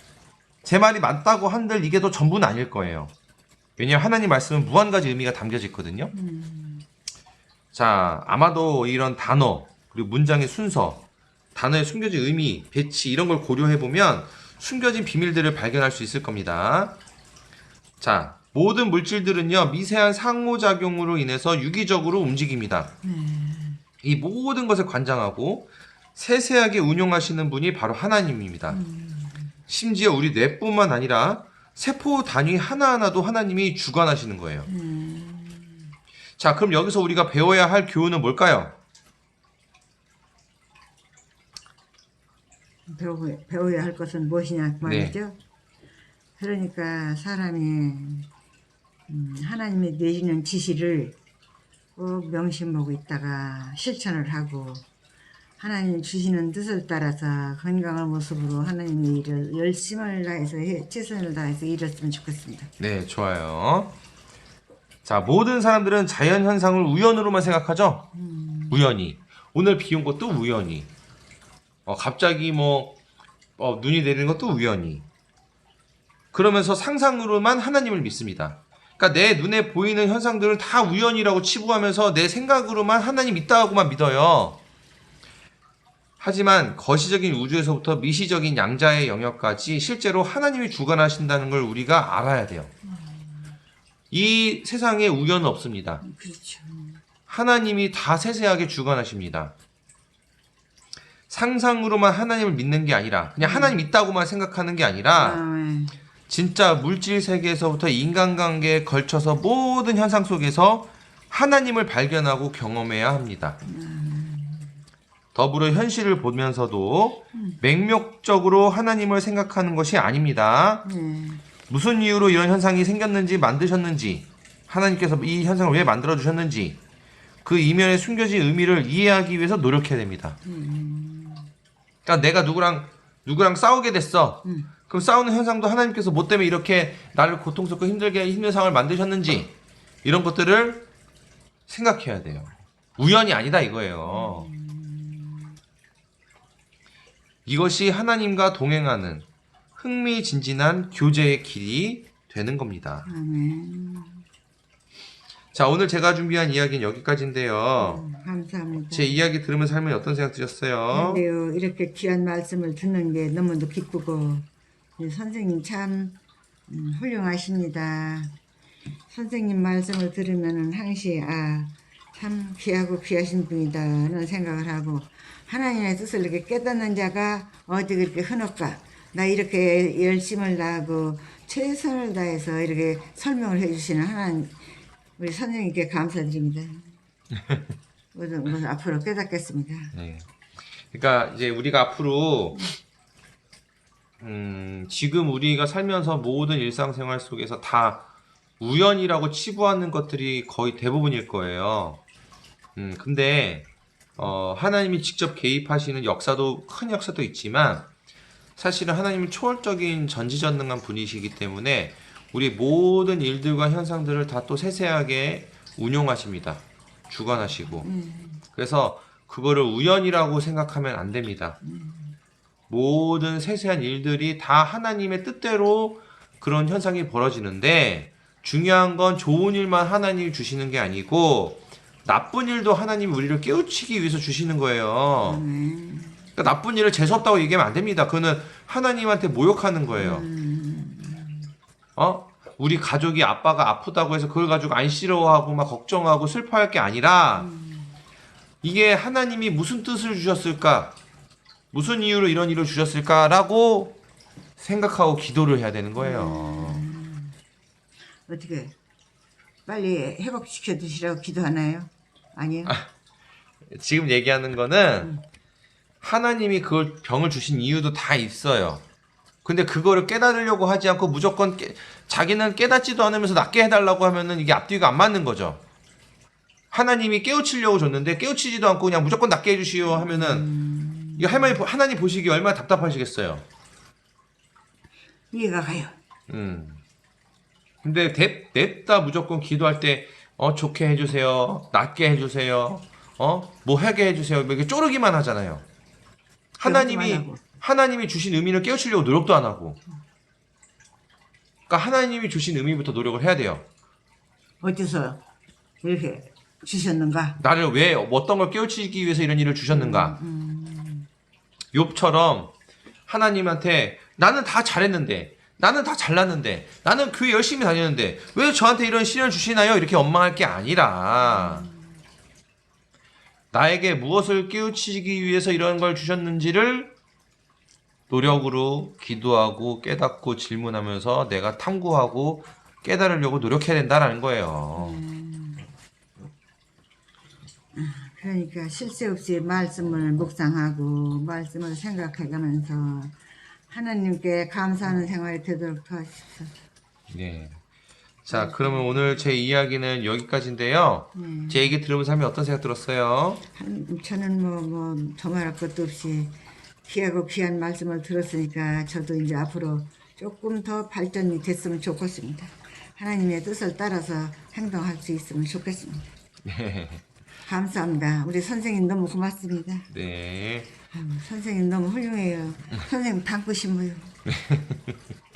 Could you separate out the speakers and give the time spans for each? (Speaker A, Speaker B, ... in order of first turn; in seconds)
Speaker A: 0.6-3.1, 3.8-6.1, 7.7-11.0, 11.6-17.0, 18.0-22.9, 24.0-28.8, 29.7-34.7, 36.4-38.8, 44.8-45.1, 62.8-63.9, 65.0-68.1, 68.7-70.9, 71.9-73.0, 73.6-75.1, 76.3-84.6, 86.2-92.7, 94.1-96.0, 97.3-99.5, 101.3-105.4, 106.3-113.6, 115.3-120.9, 121.7-126.8, 127.4-130.4, 132.1-140.9, 141.7-144.5, 147.5-153.1, 155.5-158.0, 158.9-161.2, 187.3-187.7, 189.9-190.3, 190.8-192.7, 194.2-198.1, 198.6-202.0, 202.8-207.9, 208.6-217.9, 218.5-221.6, 222.7-235.4, 236.4-240.2, 242.0-247.5, 248.6-251.0, 251.7-254.0, 254.6-256.8, 263.7-265.1, 266.0-268.8, 269.4-275.6, 276.7-280.5, 281.2-283.4, 286.3-286.8, 287.8-295.6, 296.6-299.8, 301.7-303.7, 307.4-310.2, 311.7-312.5, 313.1-321.7, 323.5-326.9, 328.1-335.0, 347.1-347.6, 348.2-353.4, 366.4-367.0, 369.9-370.7, 374.3-375.0
Speaker B: 6.1-6.8, 23.0-23.8, 28.7-29.6, 34.7-35.8, 42.9-45.4, 46.4-48.3, 49.1-51.2, 52.0-54.9, 55.6-62.7, 68.2-68.8, 92.9-93.5, 96.0-97.0, 103.4-103.8, 105.2-106.0, 113.7-114.7, 117.3-117.6, 120.8-121.4, 130.4-131.5, 134.4-134.7, 144.1-145.4, 153.1-154.2, 157.8-159.2, 160.9-164.5, 165.0-168.3, 169.1-184.6, 185.2-186.9, 188.1-189.9, 217.8-218.4, 221.6-222.2, 235.2-236.3, 240.0-241.5, 247.4-247.9, 256.0-257.4, 258.3-258.8, 259.7-262.8, 279.9-281.6, 285.3-286.0, 296.6-297.4, 304.6-305.2, 305.8-307.4, 309.7-311.1, 321.4-321.7, 334.8-335.6, 337.8-343.2, 343.7-346.5, 348.3-349.3, 351.1-351.7, 353.6-366.1, 367.5-369.9, 370.9-374.1